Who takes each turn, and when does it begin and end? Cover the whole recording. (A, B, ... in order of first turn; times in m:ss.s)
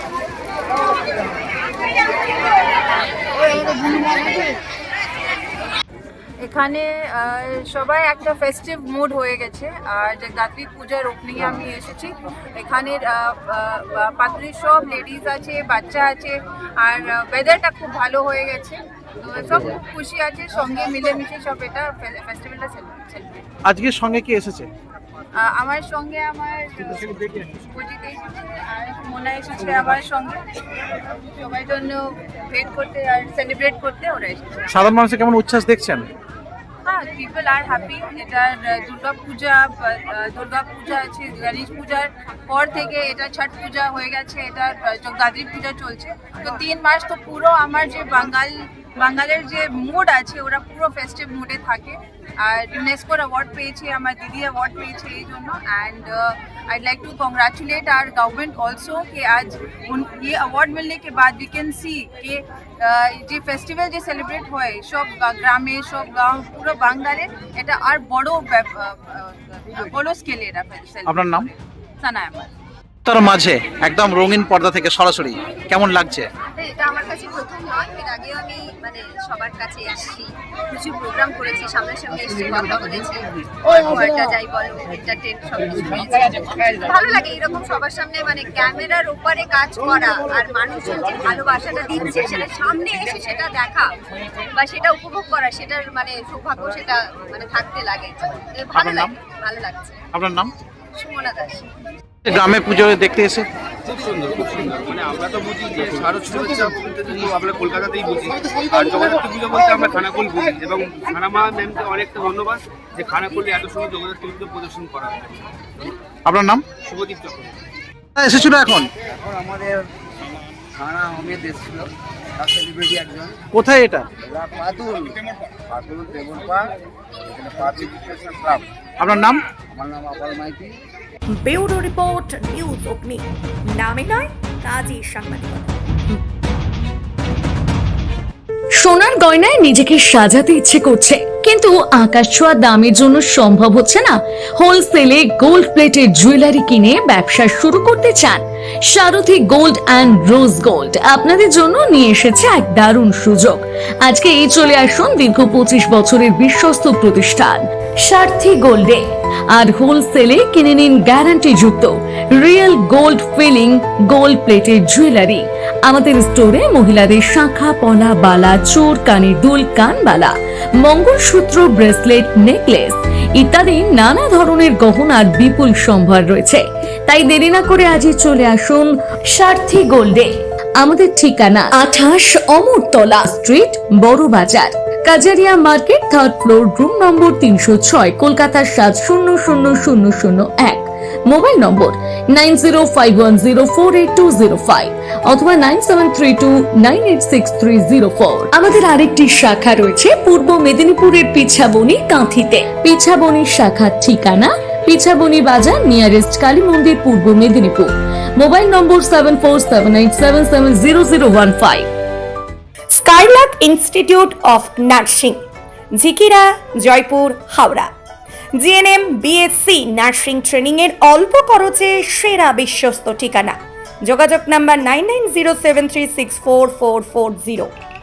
0:06.4-0:23.4 A
0:23.7-0:24.7 B
0:25.4-0:30.4 A
0:31.3-0:34.7 A
0:34.7-0:36.1 B
0:36.9-1:12.5 A
1:11.1-1:11.5 B
1:13.0-1:16.3 B
1:16.5-1:34.0 C
1:34.6-1:40.0 C
1:38.8-1:39.1 B
1:40.1-1:40.5 B
1:41.0-1:41.7 C
1:42.2-1:43.5 B
1:43.9-1:55.5 D
1:56.3-1:56.6 B
1:56.8-1:57.6 D
1:58.2-1:58.9 B
1:59.2-1:59.8 E
2:00.8-2:03.4 E
2:03.5-2:04.1 B
2:04.2-2:06.7 E
2:07.3-2:08.7 E
2:09.0-2:09.4 B
2:09.7-2:10.8 E
2:11.3-2:15.7 F
2:18.8-3:31.9 G
3:32.9-3:37.9 F
3:38.6-3:47.7 F